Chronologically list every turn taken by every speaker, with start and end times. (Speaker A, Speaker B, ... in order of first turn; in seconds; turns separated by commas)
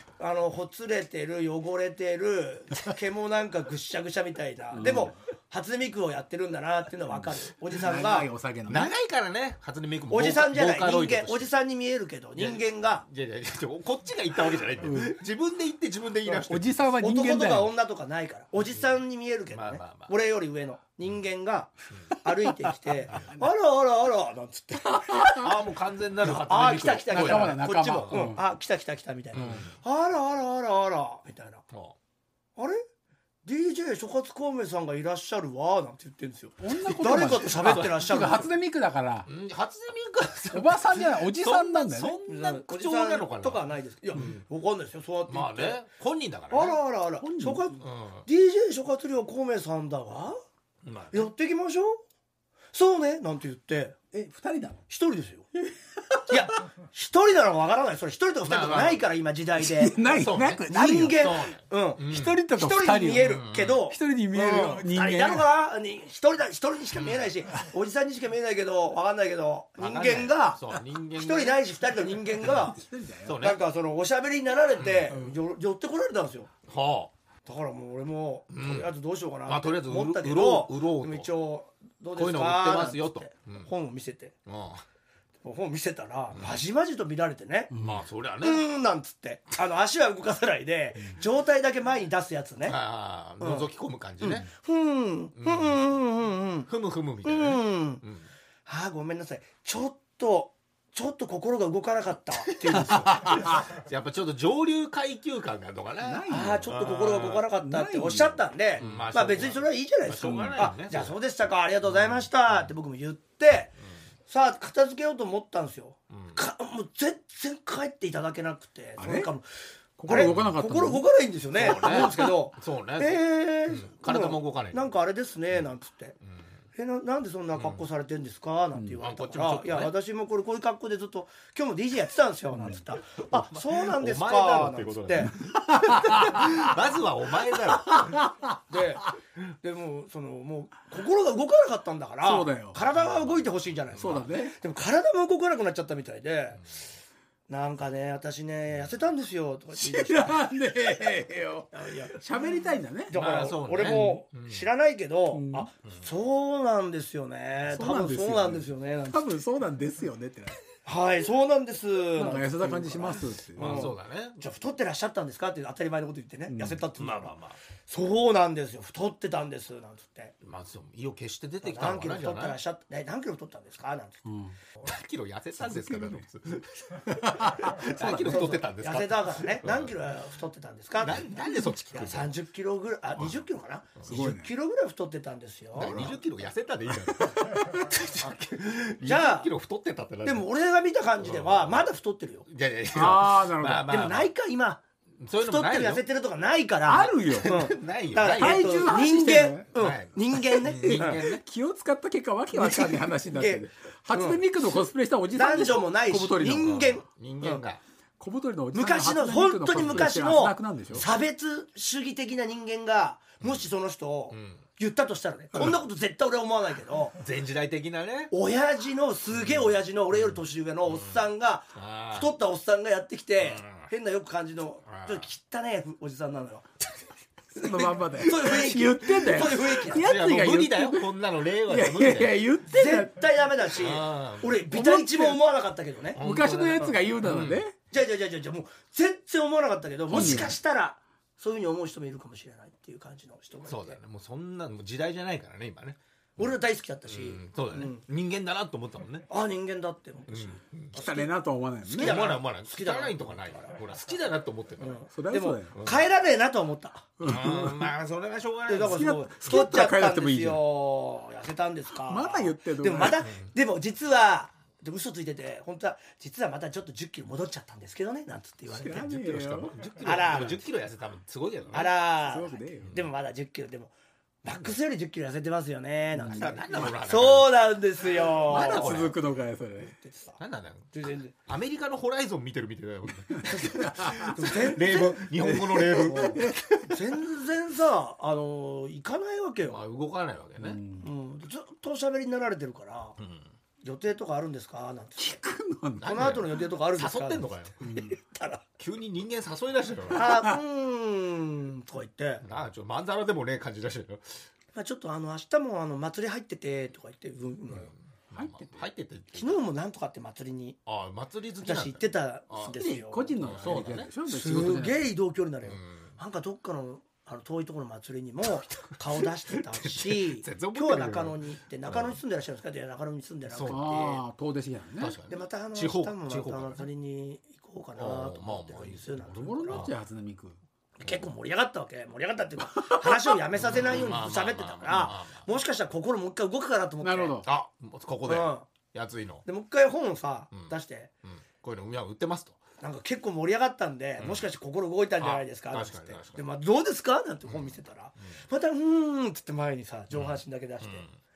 Speaker A: 0.2-8.3, Speaker B: 4.7-5.1, Speaker B: 7.1-8.9, Speaker C: 8.7-11.5, Speaker A: 10.1-13.0, Speaker C: 12.3-16.6, Speaker B: 14.8-15.2, Speaker B: 16.2-17.7, Speaker A: 17.0-25.4, Speaker C: 18.7-18.9, Speaker C: 19.5-20.1, Speaker B: 24.9-25.4, Speaker C: 25.4-28.3, Speaker A: 26.2-31.6, Speaker B: 27.1-28.4, Speaker C: 29.3-29.7, Speaker C: 31.7-31.9, Speaker A: 32.6-32.8, Speaker A: 33.4-38.5, Speaker B: 36.6-39.3, Speaker C: 37.4-38.1, Speaker C: 39.2-44.4, Speaker B: 40.5-42.1, Speaker A: 42.3-45.8, Speaker C: 45.3-46.8, Speaker A: 46.5-50.4, Speaker B: 47.2-47.6, Speaker C: 47.8-48.3, Speaker C: 50.8-51.3, Speaker A: 51.1-52.0, Speaker A: 52.7-54.0, Speaker B: 54.1-54.8, Speaker A: 54.9-55.5, Speaker B: 55.6-56.3, Speaker A: 56.3-60.0, Speaker C: 58.4-59.0, Speaker B: 59.6-61.3, Speaker C: 60.1-62.4, Speaker A: 60.7-70.6, Speaker B: 62.1-63.4, Speaker C: 63.1-63.8, Speaker B: 63.9-65.5, Speaker C: 66.9-67.3, Speaker C: 69.8-71.7, Speaker A: 71.2-72.8, Speaker B: 72.4-73.4, Speaker C: 73.2-73.6, Speaker A: 73.4-76.5, Speaker C: 74.8-75.1, Speaker C: 76.7-77.1, Speaker A: 77.4-84.3, Speaker C: 78.5-78.9, Speaker C: 79.5-81.3, Speaker C: 82.1-83.7, Speaker C: 84.5-84.8, Speaker A: 85.4-87.7, Speaker C: 86.3-86.6, Speaker B: 87.7-88.0, Speaker C: 87.8-88.7, Speaker A: 88.4-92.8, Speaker C: 92.6-94.5, Speaker A: 93.4-93.7, Speaker A: 94.2-96.7, Speaker C: 95.4-95.8, Speaker C: 96.7-98.3, Speaker A: 97.2-98.0, Speaker A: 98.7-103.5, Speaker C: 102.7-107.5, Speaker B: 106.0-106.7, Speaker A: 106.3-113.7, Speaker B: 107.6-109.0, Speaker C: 108.8-111.1, Speaker B: 110.2-110.6, Speaker A: 114.3-119.5, Speaker C: 116.1-116.4, Speaker B: 119.0-119.3, Speaker B: 120.0-121.0, Speaker A: 120.1-126.2, Speaker C: 120.1-120.5, Speaker C: 121.6-124.9, Speaker B: 121.6-122.3, Speaker A: 126.7-135.3, Speaker C: 127.5-127.8, Speaker C: 129.0-129.9, Speaker C: 133.2-138.3, Speaker B: 135.3-136.8, Speaker B: 137.8-138.4, Speaker A: 138.7-146.6, Speaker B: 142.2-142.8, Speaker C: 142.9-144.3, Speaker B: 144.0-144.6, Speaker A: 147.5-151.0, Speaker B: 149.8-153.2, Speaker A: 151.7-152.2, Speaker A: 153.1-159.3, Speaker C: 153.1-154.7, Speaker B: 153.8-154.2, Speaker B: 155.3-155.7, Speaker B: 157.7-160.6, Speaker A: 160.8-167.3, Speaker B: 162.2-163.9, Speaker C: 163.6-164.4, Speaker B: 166.5-166.8, Speaker C: 167.0-167.6, Speaker A: 167.9-170.3, Speaker C: 170.4-172.6, Speaker A: 171.6-174.3, Speaker B: 174.2-174.6, Speaker C: 174.8-179.9, Speaker B: 175.6-176.2, Speaker B: 177.0-178.6, Speaker A: 178.0-181.3, Speaker C: 181.0-182.3, Speaker A: 181.9-186.2, Speaker C: 183.2-183.4, Speaker C: 184.0-184.2, Speaker B: 184.1-184.5, Speaker C: 185.7-190.5, Speaker B: 187.1-187.8, Speaker A: 189.0-189.5, Speaker A: 190.2-192.4, Speaker C: 191.2-191.9, Speaker C: 192.4-194.3, Speaker B: 192.9-193.9, Speaker A: 193.8-194.8, Speaker C: 195.2-196.0, Speaker A: 195.4-201.2, Speaker B: 196.8-197.6, Speaker C: 197.3-199.1, Speaker B: 198.3-199.7, Speaker C: 199.7-201.4, Speaker B: 200.6-206.8, Speaker A: 202.5-204.4, Speaker A: 205.3-207.6, Speaker C: 206.6-207.8, Speaker B: 208.2-211.0, Speaker A: 208.7-217.2, Speaker C: 213.4-213.7, Speaker C: 214.3-214.6, Speaker C: 217.2-218.3, Speaker A: 218.3-226.7, Speaker C: 219.3-222.3, Speaker C: 223.4-223.9, Speaker C: 224.8-225.3, Speaker B: 227.5-231.1, Speaker A: 227.6-230.0, Speaker C: 229.3-232.4, Speaker B: 231.7-233.3, Speaker A: 232.7-236.2, Speaker C: 233.7-234.6, Speaker B: 234.7-235.4, Speaker C: 236.1-237.6, Speaker B: 236.2-237.7, Speaker A: 237.9-244.0, Speaker B: 240.1-240.6, Speaker C: 240.1-240.5, Speaker C: 243.7-246.6, Speaker A: 246.4-248.0, Speaker C: 247.1-249.3, Speaker A: 249.3-251.3, Speaker C: 250.3-250.9, Speaker B: 250.9-252.2, Speaker A: 251.8-253.8, Speaker C: 252.0-255.0, Speaker A: 254.8-257.1, Speaker B: 255.1-255.8, Speaker C: 255.7-256.0, Speaker B: 257.2-257.9, Speaker C: 257.2-259.1, Speaker A: 258.7-270.6, Speaker B: 258.8-260.6, Speaker B: 262.0-263.2, Speaker C: 263.2-263.5, Speaker B: 268.7-269.9, Speaker C: 269.4-271.9, Speaker A: 271.7-279.0, Speaker B: 272.2-272.9, Speaker C: 272.8-273.0, Speaker B: 276.1-276.6, Speaker C: 276.3-279.2, Speaker B: 278.5-279.9, Speaker A: 279.9-280.4, Speaker C: 280.4-287.0, Speaker A: 280.9-281.3, Speaker B: 283.4-284.3, Speaker A: 283.4-289.8, Speaker B: 285.6-286.6, Speaker C: 289.6-290.8, Speaker B: 290.6-291.1, Speaker A: 291.0-293.2, Speaker C: 293.2-293.5, Speaker A: 293.8-295.4, Speaker B: 295.2-296.4, Speaker C: 296.0-297.8, Speaker A: 296.0-298.6, Speaker B: 297.8-298.1, Speaker C: 298.8-300.3, Speaker A: 300.1-302.4, Speaker B: 300.2-300.6, Speaker C: 302.4-304.4, Speaker A: 304.7-307.9, Speaker C: 307.7-309.6, Speaker B: 308.3-308.8, Speaker A: 309.3-310.8, Speaker C: 310.9-312.8, Speaker A: 311.6-324.2, Speaker B: 312.7-315.1, Speaker C: 313.4-314.1, Speaker C: 315.6-316.1, Speaker C: 318.7-322.2, Speaker C: 323.5-324.1, Speaker B: 323.7-325.1, Speaker C: 325.0-326.9, Speaker A: 325.3-329.9, Speaker C: 327.9-329.9, Speaker B: 329.2-330.6, Speaker A: 331.0-337.4, Speaker B: 332.7-333.4, Speaker C: 333.6-335.5, Speaker B: 337.0-337.5, Speaker C: 337.4-339.4, Speaker A: 338.3-338.6, Speaker A: 339.4-341.1, Speaker C: 340.5-342.6, Speaker A: 342.8-351.0, Speaker C: 344.2-344.5, Speaker C: 345.2-346.4, Speaker C: 347.4-348.4, Speaker C: 350.1-351.1